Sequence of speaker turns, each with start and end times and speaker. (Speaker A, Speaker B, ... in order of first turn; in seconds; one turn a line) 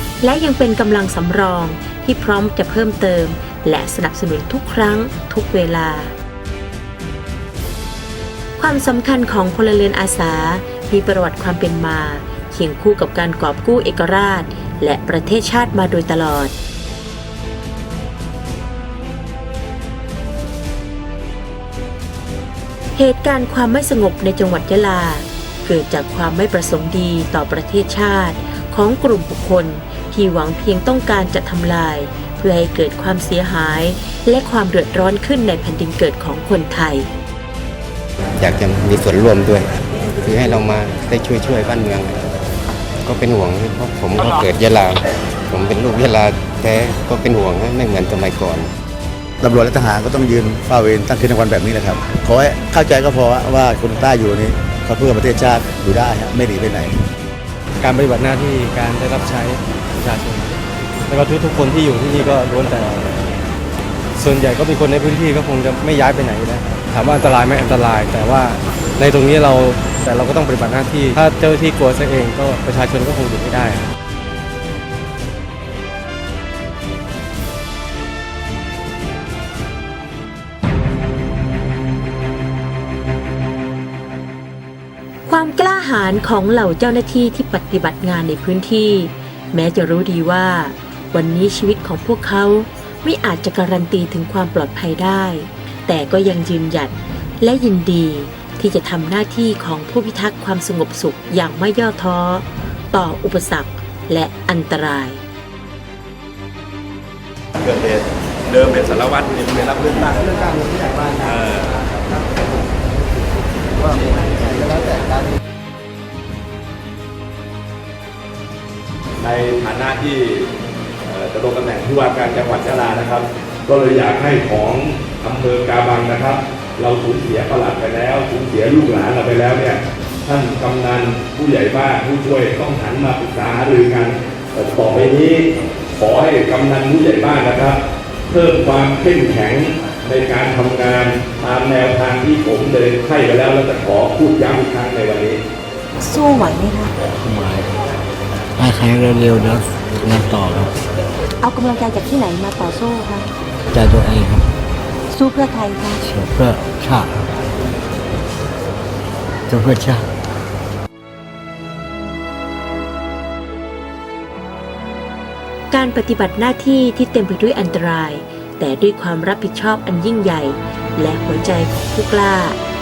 Speaker A: 0.2-6.1
Speaker A: 8.6-16.6
Speaker A: 22.9-37.1
Speaker B: 38.4-39.7
Speaker B: 40.2-42.2
Speaker B: 43.0-48.7
Speaker C: 49.4-57.0
Speaker D: 57.8-60.5
Speaker D: 61.1-63.3
Speaker D: 64.2-73.8
Speaker A: 85.3-105.2
Speaker E: 107.6-111.8
Speaker C: 114.1-115.1
Speaker E: 119.2-120.5
Speaker E: 121.1-135.5
Speaker E: 136.0-137.8
Speaker E: 138.3-145.4
Speaker A: 146.0-146.9
Speaker F: 147.2-147.7
Speaker F: 148.6-150.7
Speaker A: 151.4-153.3
Speaker F: 153.7-154.5
Speaker A: 155.1-156.1
Speaker F: 156.0-157.2
Speaker F: 159.5-160.1
Speaker A: 165.7-172.6